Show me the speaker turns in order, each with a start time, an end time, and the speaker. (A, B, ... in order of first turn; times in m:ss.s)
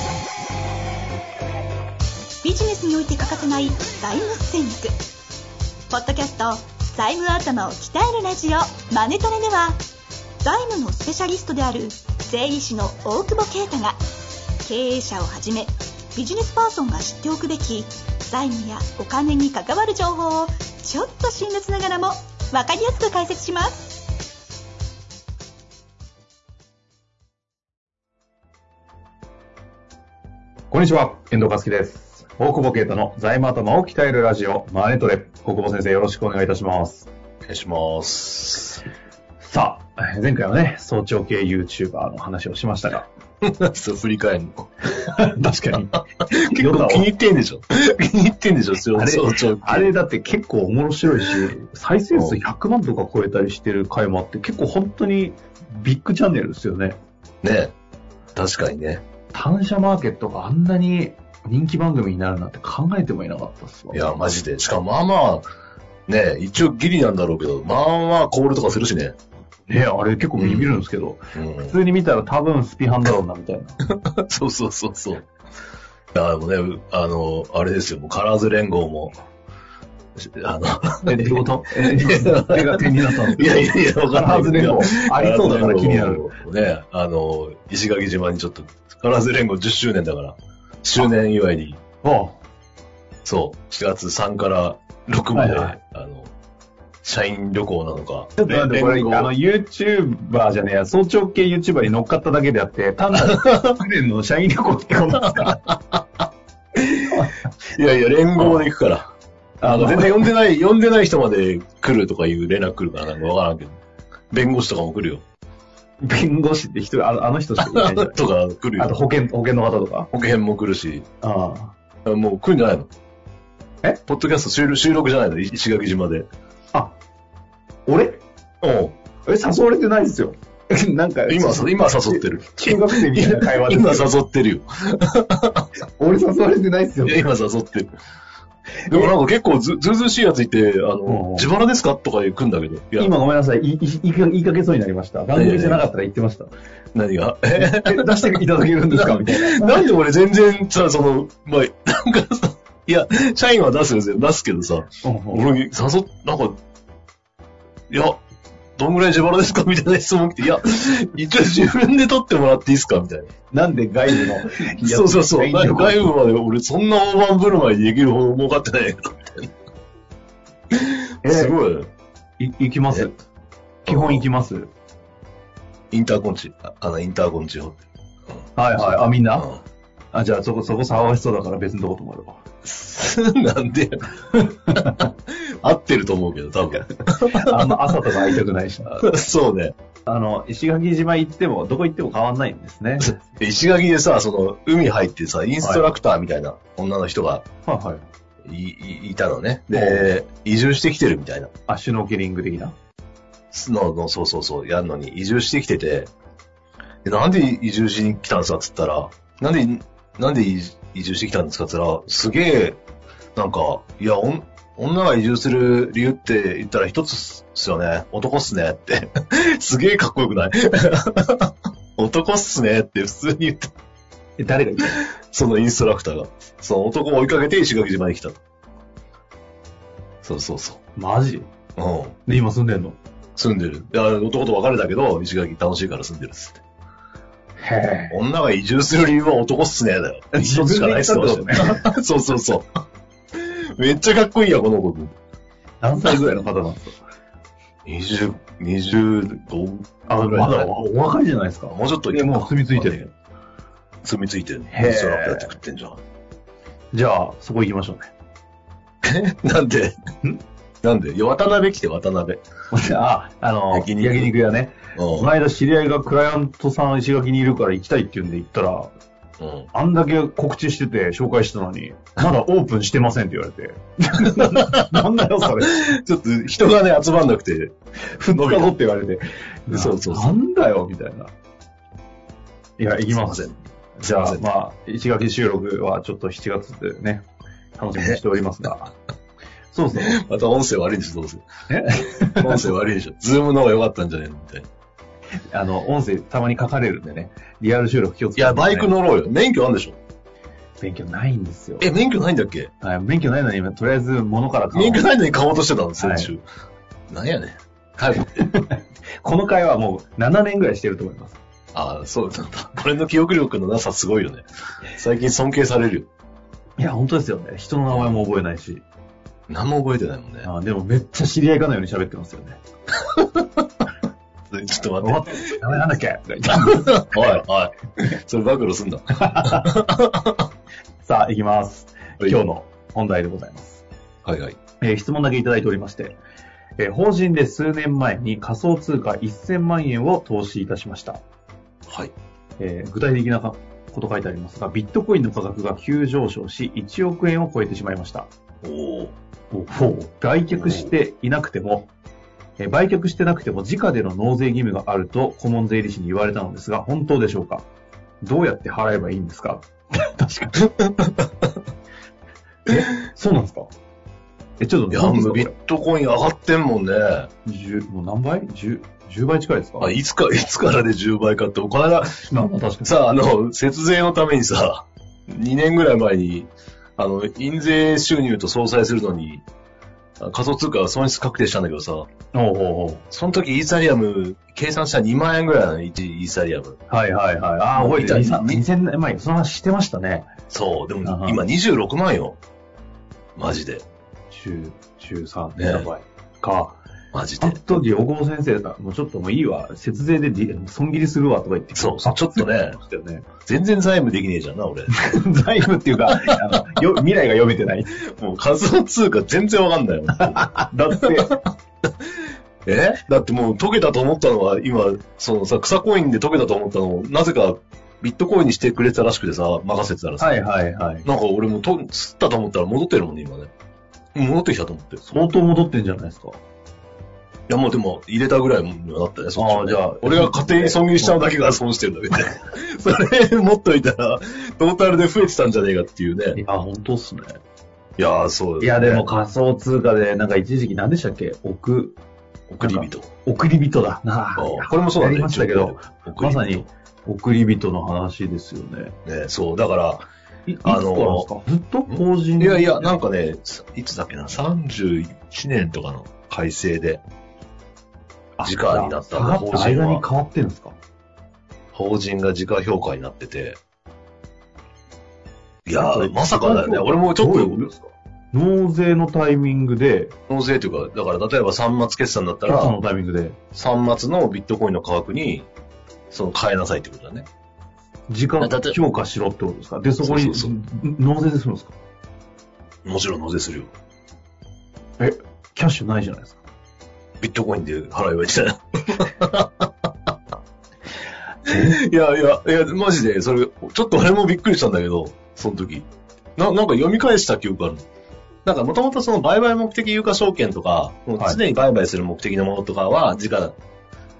0:02.4-0:04.9 A
0:05.9-0:09.8 A
0:10.4-0:14.0 A
0:14.6-0:24.1 A
0:30.7-0:37.1 B
0:37.4-0:38.8 C
0:39.4-0:43.1 B
0:43.4-0:44.7 C
0:44.9-0:47.1 B
0:46.2-0:50.0 C
0:48.9-0:57.0 B
0:52.1-0:52.4 C
0:57.4-0:57.7 C
0:58.4-0:59.0 C
0:59.3-1:04.1 B
1:03.9-1:05.5 C
1:06.1-1:09.2 C
1:09.7-1:13.8 B
1:10.4-1:10.8 C
1:11.4-1:11.8 C
1:13.8-1:15.3 C
1:16.1-1:19.2 C
1:20.2-1:31.8 C
1:21.1-1:26.3 B
1:32.0-1:32.4 B
1:33.2-1:36.3 C
1:35.3-1:35.8 B
1:37.0-1:39.3 C
1:38.4-1:45.6 B
1:43.1-1:43.8 C
1:45.2-1:46.0 C
1:46.8-1:49.1 C
1:47.1-1:47.4 B
1:48.4-1:48.7 B
1:49.6-1:50.3 B
1:49.6-1:53.8 C
1:54.3-1:55.2 C
1:56.0-1:58.2 B
1:57.6-1:58.9 C
1:58.8-2:00.1 B
2:00.1-2:01.1 C
2:01.2-2:01.7 B
2:02.0-2:02.9 C
2:04.1-2:06.3 C
2:07.9-2:08.2 B
2:08.6-2:09.0 C
2:09.3-2:14.1 B
2:11.3-2:15.7 C
2:16.0-2:17.2 B
2:17.0-2:17.9 C
2:18.8-2:19.1 B
2:18.9-2:23.1 C
2:21.1-2:21.5 B
2:23.0-2:26.5 B
2:25.4-2:25.9 C
2:27.0-2:36.6 C
2:27.6-2:29.9 B
2:35.0-2:35.5 B
2:37.9-2:38.2 C
2:38.8-2:43.3 C
2:43.5-2:46.1 B
2:44.8-2:49.5 C
2:50.7-2:51.9 C
2:51.2-2:51.6 B
2:52.4-2:53.2 B
2:53.9-2:54.3 C
2:53.9-2:54.7 B
2:55.9-2:57.9 C
2:58.6-2:59.5 B
2:58.7-2:59.6 C
3:00.1-3:02.4 B
3:02.6-3:07.8 C
3:07.1-3:09.0 B
3:08.9-3:09.7 C
3:10.1-3:13.2 B
3:13.0-3:17.4 C
3:15.6-3:15.9 B
3:17.7-3:18.0 B
3:18.4-3:21.5 C
3:19.7-3:20.1 B
3:21.7-3:22.8 B
3:23.5-3:26.1 C
3:27.0-3:32.8 C
3:33.4-3:43.7 C
3:44.4-3:45.0 B
3:44.9-3:48.4 C
3:50.2-3:50.8 C
3:51.0-3:51.5 B
3:51.8-3:52.2 C
3:52.3-3:53.0 B
3:53.4-3:56.6 C
3:57.6-3:58.2 B
3:58.1-4:02.7 C
4:00.3-4:01.8 B
4:03.3-4:05.2 C
4:05.8-4:07.0 B
4:07.8-4:10.8 C
4:10.1-4:13.1 B
4:11.7-4:13.1 C
4:14.0-4:16.0 C
4:14.7-4:15.6 B
4:16.9-4:18.1 B
4:19.0-4:20.0 C
4:20.8-4:22.4 C
4:22.7-4:28.9 B
4:23.7-4:24.3 C
4:25.0-4:25.3 C
4:29.4-4:29.7 C
4:29.7-4:35.8 B
4:34.4-4:35.0 C
4:35.6-4:37.7 C
4:38.1-4:41.3 B
4:38.4-4:38.7 C
4:39.7-4:40.4 C
4:42.8-4:48.9 B
4:43.1-4:44.4 C
4:48.0-4:48.2 C
4:49.7-4:50.2 B
4:50.0-4:51.4 C
4:51.7-4:52.7 B
4:52.4-4:54.7 C
4:55.5-4:58.9 B
4:58.4-5:00.0 C
5:00.8-5:01.9 B
5:01.8-5:02.7 C
5:02.8-5:05.1 B
5:04.7-5:06.4 C
5:06.0-5:06.3 B
5:07.1-5:08.4 C
5:08.4-5:11.4 B
5:11.7-5:14.4 C
5:15.0-5:16.1 C
5:16.8-5:18.8 B
5:17.9-5:18.2 C
5:19.5-5:20.5 C
5:20.4-5:22.6 B
5:23.1-5:23.5 C
5:24.5-5:25.6 C
5:25.0-5:27.4 B
5:26.5-5:30.5 C
5:29.2-5:29.7 B
5:31.0-5:33.8 B
5:34.2-5:34.6 C
5:34.8-5:36.2 B
5:36.8-5:41.2 B
5:41.9-5:42.1 C
5:42.6-5:48.3 B
5:48.6-5:49.2 C
5:49.5-5:51.9 B
5:50.5-5:50.9 C
5:52.6-5:57.7 B
5:58.2-6:00.7 B
6:00.8-6:01.5 C
6:02.7-6:03.7 B
6:04.6-6:05.5 B
6:04.9-6:07.3 C
6:07.4-6:10.0 B
6:09.8-6:12.3 C
6:12.3-6:12.9 B
6:12.8-6:19.4 C
6:20.2-6:22.1 C
6:22.3-6:23.0 B
6:23.1-6:26.8 C
6:26.9-6:30.3 B
6:27.7-6:28.6 C
6:30.5-6:32.4 C
6:31.0-6:31.4 B
6:33.4-6:33.9 C
6:34.3-6:36.8 B
6:35.6-6:35.9 C
6:37.1-6:37.6 C
6:37.4-6:43.3 B
6:41.7-6:42.8 C
6:43.5-6:44.9 C
6:44.9-6:48.0 B
6:46.1-6:46.4 C
6:48.1-6:51.4 C
6:50.2-6:51.4 B
6:52.7-7:00.4 C
7:00.2-7:01.0 B
7:01.0-7:03.5 C
7:04.2-7:05.0 C
7:05.0-7:06.4 B
7:07.5-7:16.4 C
7:09.4-7:11.2 B
7:16.4-7:17.4 B
7:18.0-7:19.1 C
7:18.6-7:22.0 B
7:22.5-7:23.1 C
7:22.6-7:29.0 B
7:24.4-7:26.7 C
7:29.0-7:30.1 C
7:30.5-7:32.9 B
7:30.6-7:31.3 C
7:31.9-7:37.0 C
7:38.4-7:40.8 B
7:38.4-7:40.0 C
7:41.7-7:43.6 C
7:45.6-7:47.8 C
7:45.8-7:47.8 B
7:48.3-7:50.2 B
7:50.3-7:52.8 C
7:52.5-7:53.4 B
7:53.5-7:55.5 C
7:56.1-7:57.3 C
7:58.1-8:01.8 B
7:58.4-7:58.8 C
8:00.0-8:00.5 C
8:02.8-8:03.7 C
8:05.0-8:06.4 B
8:07.2-8:09.7 C
8:11.5-8:17.8 C
8:18.4-8:23.6 C